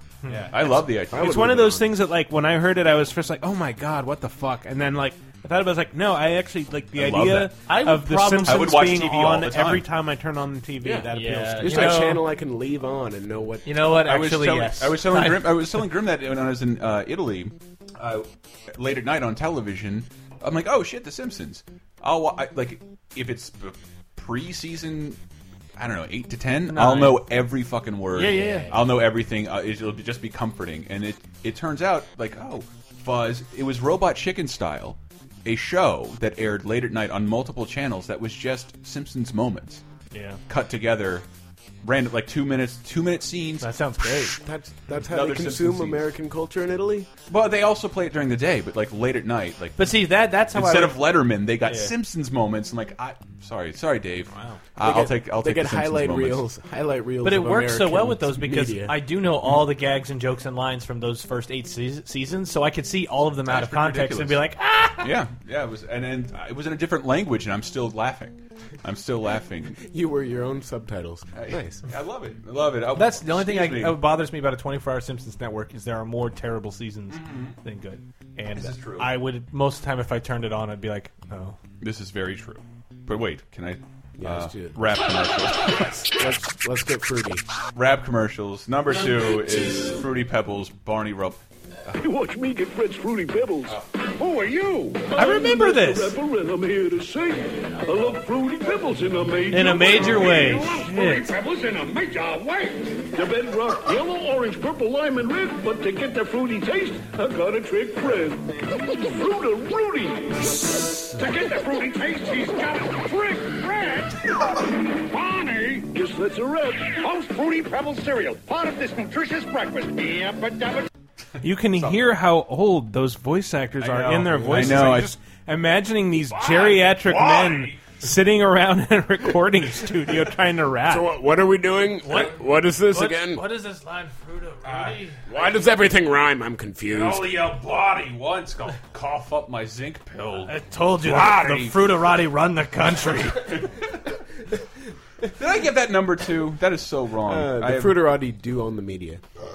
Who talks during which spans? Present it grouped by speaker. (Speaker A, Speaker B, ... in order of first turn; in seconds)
Speaker A: 0.2-0.5, 7.6-9.0, 11.1-12.2, 13.6-15.7, 26.7-27.2, 28.1-28.7, 40.1-40.4, 43.6-44.4, 49.8-51.1, 51.6-51.9, 54.3-54.6, 57.2-65.1, 72.9-81.6, 95.1-96.2, 99.5-101.3, 132.0-135.2, 140.5-143.5
Speaker B: 0.3-12.0, 121.4-131.1
Speaker C: 0.5-1.5, 6.9-7.5, 8.4-9.9, 14.0-25.2, 25.8-39.8, 40.5-41.2, 41.8-43.7, 44.9-46.0, 47.3-56.4, 63.5-64.4, 65.0-69.8, 71.3-74.0, 77.1-77.6, 78.5-79.1, 81.8-86.1, 87.7-92.0, 121.7-122.1, 123.8-125.1, 126.4-128.0, 134.6-135.0, 136.9-141.9, 143.4-143.9, 145.3-148.0
Speaker D: 1.1-1.9, 10.8-11.1, 11.6-13.7, 28.2-28.8, 44.2-47.1, 54.8-59.0, 69.8-71.8, 84.2-84.8, 86.1-87.4, 124.5-124.8, 130.8-133.4, 135.3-137.3, 147.2-149.2
Speaker E: 92.0-114.1, 115.1-120.8